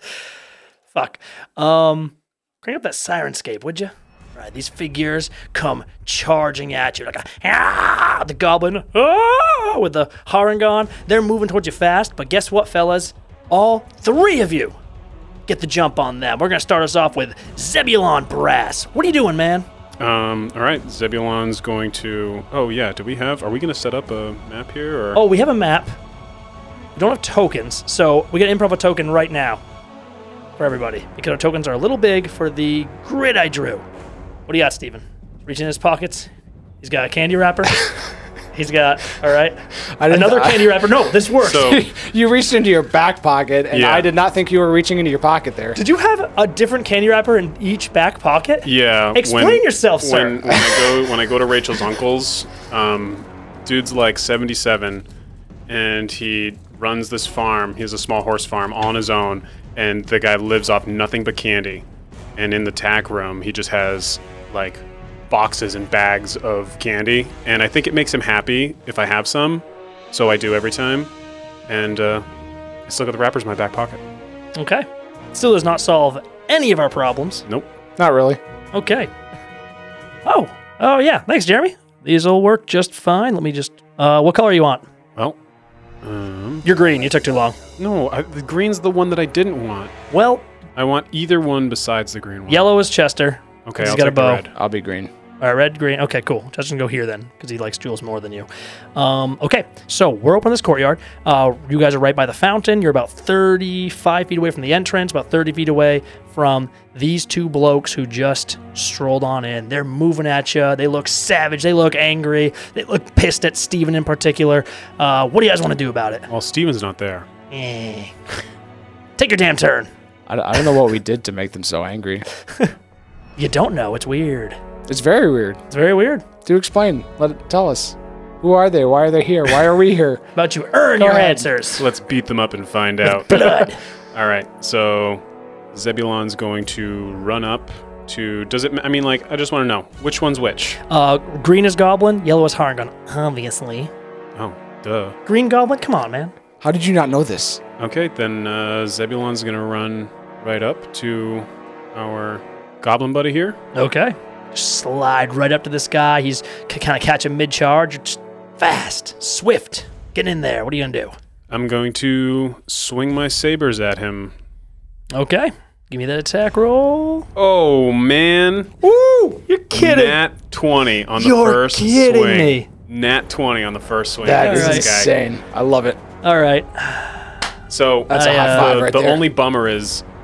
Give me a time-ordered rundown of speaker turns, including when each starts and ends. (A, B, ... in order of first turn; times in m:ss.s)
0:00.9-0:14.8 A
0:15.5-0:19.7 A
0:20.0-0:25.2 B
0:25.2-0:26.0 A
0:27.0-0:29.6 A
0:30.6-0:33.9 A
0:34.5-0:36.3 A
0:36.8-0:37.8 A
0:38.5-0:41.8 A
0:40.0-0:45.8 C
0:41.4-0:41.8 B
0:43.7-0:44.1 B
0:45.8-0:50.6 A
0:48.6-0:55.0 B
0:55.7-1:01.8 B
1:02.4-1:11.1 B
1:11.7-1:12.2 B
1:12.9-1:14.0 B
1:14.6-1:17.4 A
1:18.0-1:18.4 C
1:18.7-1:19.1 A
1:20.2-1:24.8 A
1:26.0-1:26.6 B
1:26.6-1:27.6 A
1:27.8-1:29.9 B
1:30.1-1:30.5 A
1:30.8-1:32.7 B
1:32.5-1:34.5 A
1:33.7-1:34.5 B
1:34.5-1:35.1 C
1:35.4-1:56.3 A
1:56.3-1:57.3 B
1:57.5-1:58.2 A
1:59.2-1:59.9 A
2:00.3-2:02.2 C
2:03.4-2:04.6 A
2:04.9-2:05.6 C
2:05.7-2:06.3 A
2:06.4-2:10.2 C
2:10.4-2:11.8 A
2:11.0-2:11.5 C
2:11.7-2:20.8 B
2:13.3-2:13.8 A
2:20.9-2:23.9 A
2:24.4-2:25.2 B
2:25.3-2:26.3 A
2:26.6-2:27.6 C
2:27.8-2:33.6 B
2:33.7-2:41.2 A
2:41.5-2:44.3 B
2:45.1-2:47.3 A
2:47.4-2:48.8 B
2:48.8-2:49.2 C
2:49.2-2:50.2 A
2:49.7-2:55.1 B
2:51.2-2:52.7 A
2:54.2-2:56.0 C
2:54.4-2:54.9 A
2:56.2-2:57.4 A
2:57.7-3:00.0 B
2:58.1-2:59.3 C
2:58.1-2:58.8 A